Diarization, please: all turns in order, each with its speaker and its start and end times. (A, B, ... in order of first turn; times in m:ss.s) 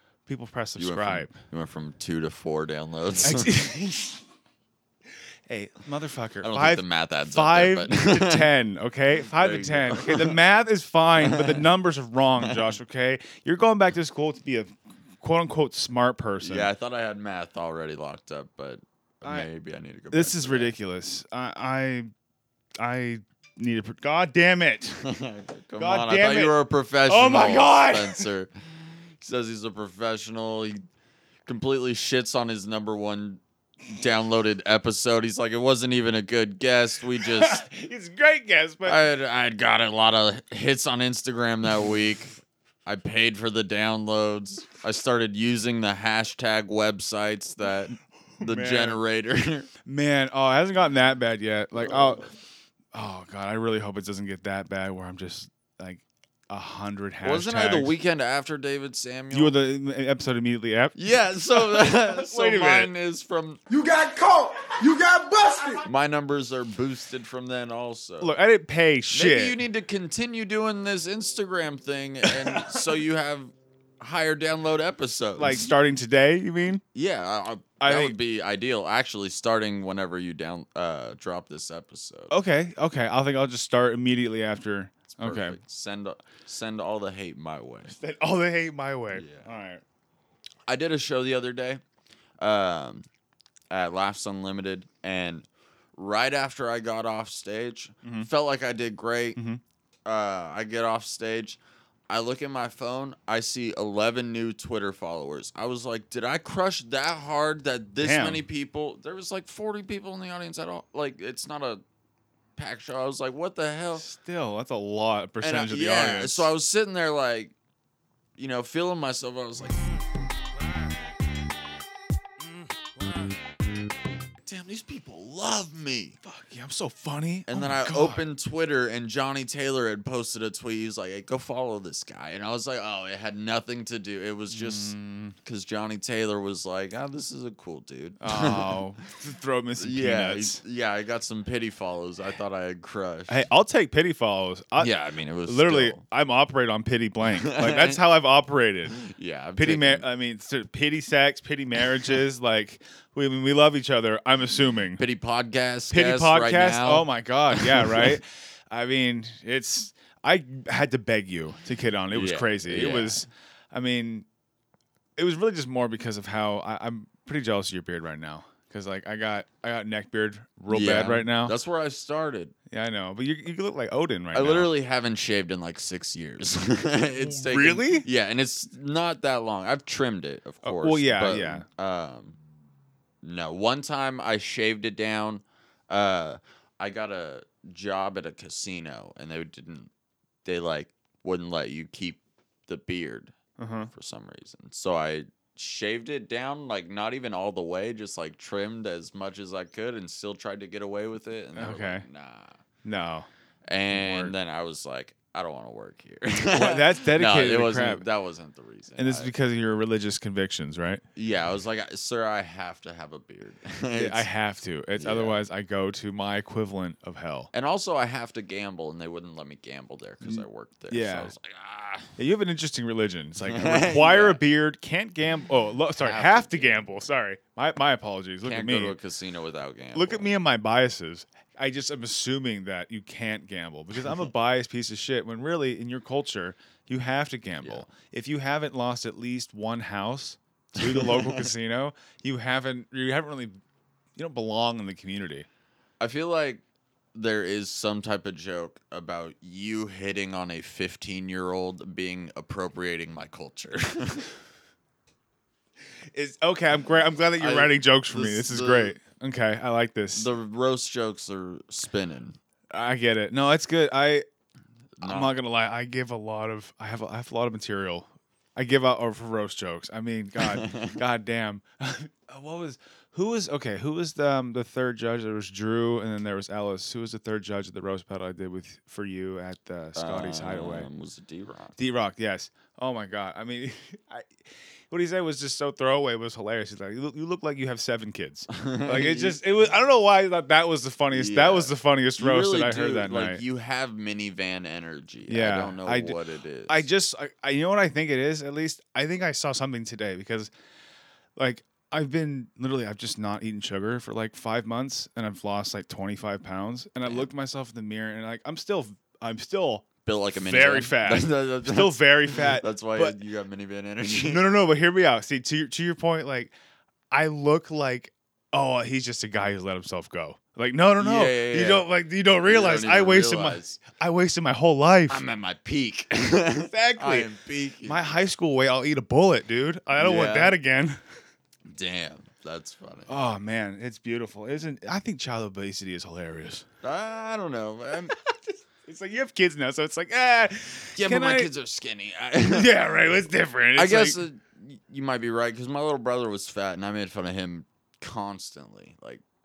0:00.3-0:01.4 A
0:00.8-0:03.7 B
0:03.2-0:04.2 A
0:05.5-0:16.7 A
0:06.4-0:08.5 B
0:09.2-0:10.4 B
0:11.2-0:11.7 B
0:12.4-0:12.7 B
0:16.4-0:20.7 B
0:20.1-0:22.1 A
0:22.8-0:25.0 A
0:25.0-0:30.8 B
0:25.8-0:28.3 A
0:31.5-0:37.6 B
0:37.2-0:39.0 A
0:38.9-0:42.4 B
0:42.9-0:49.7 B
0:48.4-0:49.0 A
0:49.9-0:52.2 A
0:51.8-0:52.3 B
0:52.9-0:57.9 A
0:57.2-0:59.5 B
0:59.3-1:02.9 A
1:01.0-1:03.6 B
1:03.7-1:05.9 C
1:05.9-1:08.4 B
1:08.2-1:09.6 A
1:09.1-1:15.7 B
1:12.3-1:12.8 A
1:15.4-1:16.8 A
1:16.9-1:22.3 B
1:17.8-1:18.2 A
1:22.3-1:25.6 A
1:25.2-1:28.0 B
1:27.9-1:29.8 A
1:29.1-1:29.5 B
1:30.7-1:31.8 B
1:32.4-1:33.1 B
1:33.7-1:39.4 B
1:38.0-1:38.3 A
1:39.4-1:39.6 A
1:40.0-1:51.8 B
1:48.0-1:48.4 A
1:52.6-1:54.0 B
1:53.9-1:56.5 A
1:55.4-1:57.5 B
1:58.4-1:59.9 B
2:03.0-2:03.3 A
2:04.4-2:06.2 B
2:06.2-2:08.2 A
2:07.5-2:18.8 B
2:14.5-2:15.4 A
2:18.2-2:20.6 A
2:19.8-2:23.5 B
2:23.3-2:24.9 A
2:24.8-2:26.0 B
2:25.5-2:29.0 A
2:27.4-2:28.0 B
2:29.0-2:30.1 B
2:29.6-2:35.0 A
2:35.0-2:38.2 B
2:35.9-2:44.3 A
2:42.1-2:43.2 B
2:45.2-2:51.5 A
2:50.7-2:52.5 B
2:52.7-2:54.7 A
2:54.3-3:02.4 B
2:57.1-2:58.1 A
3:00.6-3:01.7 A
3:03.2-3:09.9 B
3:10.4-3:13.3 B
3:13.6-3:13.9 A
3:13.9-3:22.6 B
3:21.6-3:22.1 A
3:22.8-3:23.3 A
3:23.7-3:29.3 B
3:23.9-3:24.3 A
3:26.5-3:28.0 A
3:29.0-3:31.0 A
3:31.2-3:34.3 B
3:34.0-3:37.5 A
3:35.0-3:35.4 B
3:37.5-3:42.2 B
3:40.2-3:41.3 A
3:42.2-3:49.0 A
3:43.5-3:44.4 B
3:46.0-3:47.1 B
3:48.4-3:50.3 B
3:50.0-4:03.6 A
3:57.6-3:57.9 B
4:00.8-4:01.5 B
4:04.2-4:05.5 A
4:06.0-4:06.6 B
4:07.1-4:14.3 B
4:16.1-4:20.3 A
4:17.4-4:19.0 B
4:20.2-4:22.4 B
4:22.7-4:24.2 A
4:25.0-4:25.4 B
4:25.0-4:40.9 A
4:30.4-4:31.0 B
4:40.0-4:41.8 B
4:41.8-4:44.4 A
4:44.9-4:53.4 A
4:48.5-4:49.4 B
4:51.1-4:56.9 B
4:55.3-5:00.5 A
5:01.4-5:09.9 A
5:10.1-5:14.4 B
5:10.4-5:13.2 A
5:14.1-5:16.5 A
5:17.1-5:25.2 A
5:21.0-5:21.9 B
5:22.4-5:23.8 B
5:25.1-5:28.1 B
5:26.6-5:27.3 A
5:27.8-5:31.0 A
5:30.0-5:30.6 B
5:31.6-5:33.1 B
5:33.1-5:36.7 A
5:36.8-5:38.2 B
5:38.1-5:41.5 A
5:41.0-5:42.7 B
5:42.5-5:44.2 A
5:43.8-5:49.2 B